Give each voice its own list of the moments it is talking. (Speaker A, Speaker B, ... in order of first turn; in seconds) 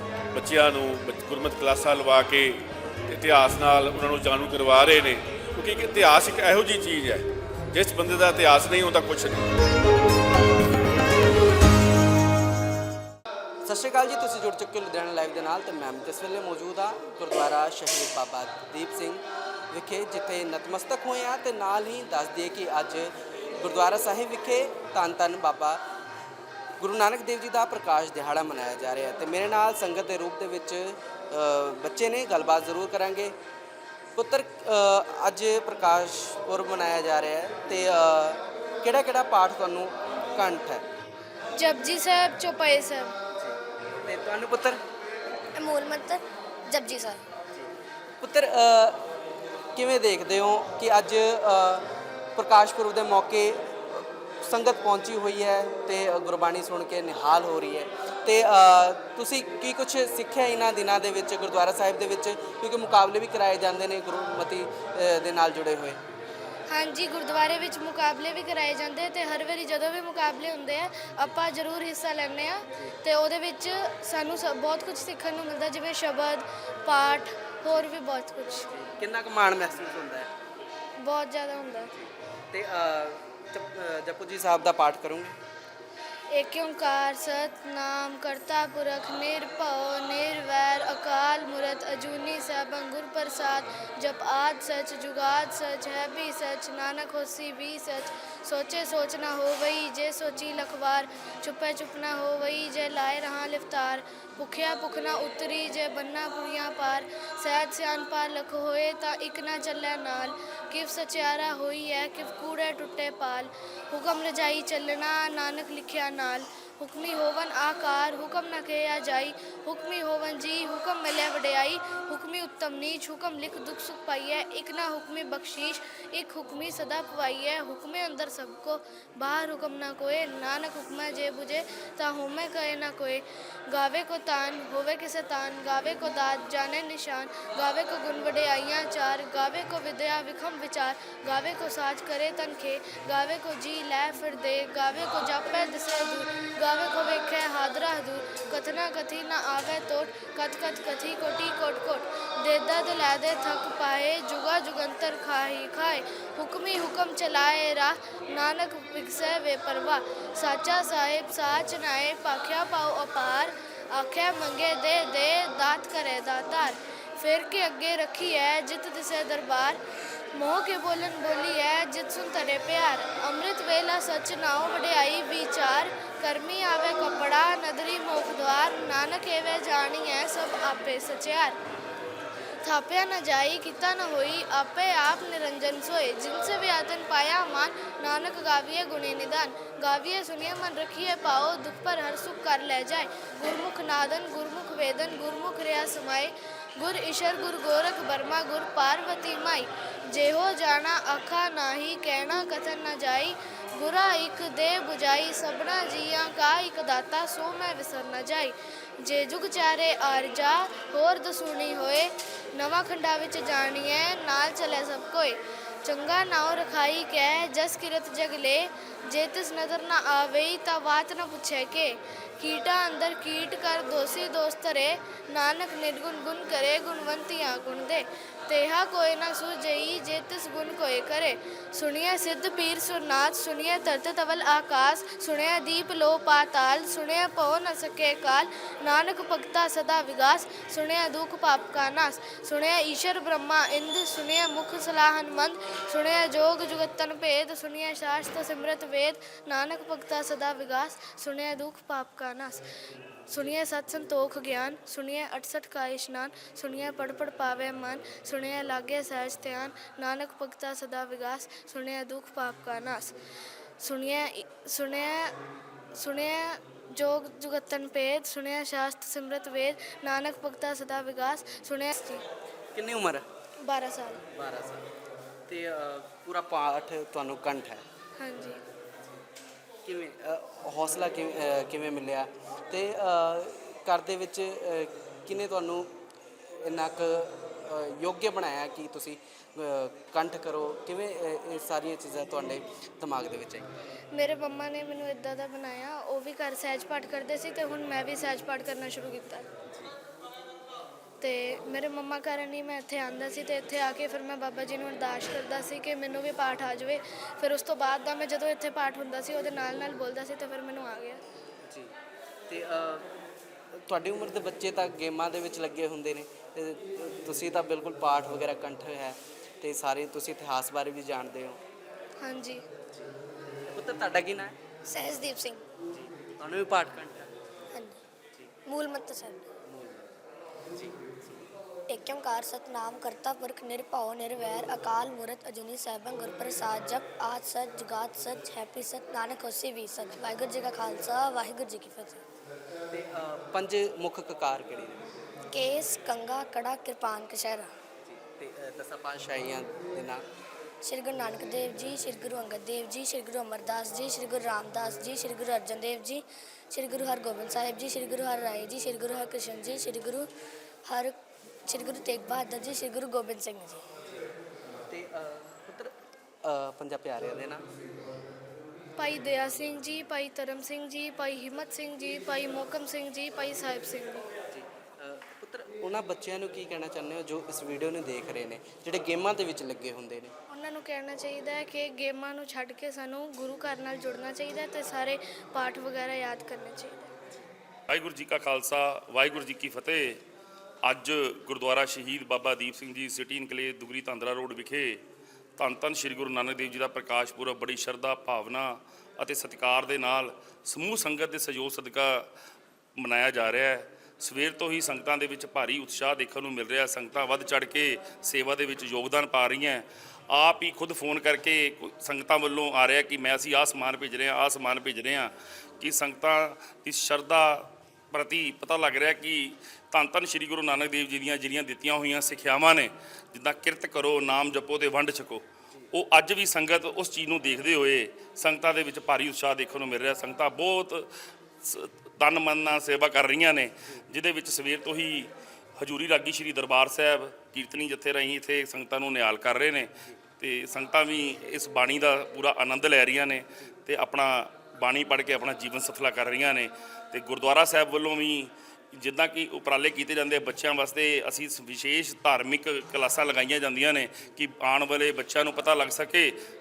Speaker A: 0.3-9.5
Speaker B: 13.6-25.8, 26.8-33.3, 34.1-40.9, 43.4-44.8, 48.2-49.1, 49.7-66.0, 78.7-80.3, 81.9-85.4, 272.7-273.2, 274.3-274.9, 275.5-277.8, 279.8-285.9, 286.6-293.7, 311.6-311.9, 312.5-313.1, 313.9-321.6, 323.7-324.5, 326.0-327.3, 329.7-330.1, 330.7-331.4, 342.9-345.1, 348.0-350.2, 364.9-365.9, 366.4-367.6, 374.5-380.3
Speaker C: 41.5-43.1, 66.7-78.7, 81.0-81.9, 86.3-169.8, 170.3-181.6, 182.6-252.6, 253.3-263.1, 263.8-265.4, 265.9-272.2, 273.6-274.2, 278.2-278.6, 294.1-299.4, 301.2-311.2, 322.2-322.6, 369.0-374.2, 380.5-387.0
Speaker D: 45.5-47.2, 324.9-325.6, 327.7-328.0, 328.6-329.4, 331.9-342.2, 345.5-347.7, 350.8-360.3, 360.9-363.8
Speaker E: 387.9-390.2, 390.8-395.0, 395.6-402.3, 403.0-431.1, 431.6-439.9, 440.4-456.3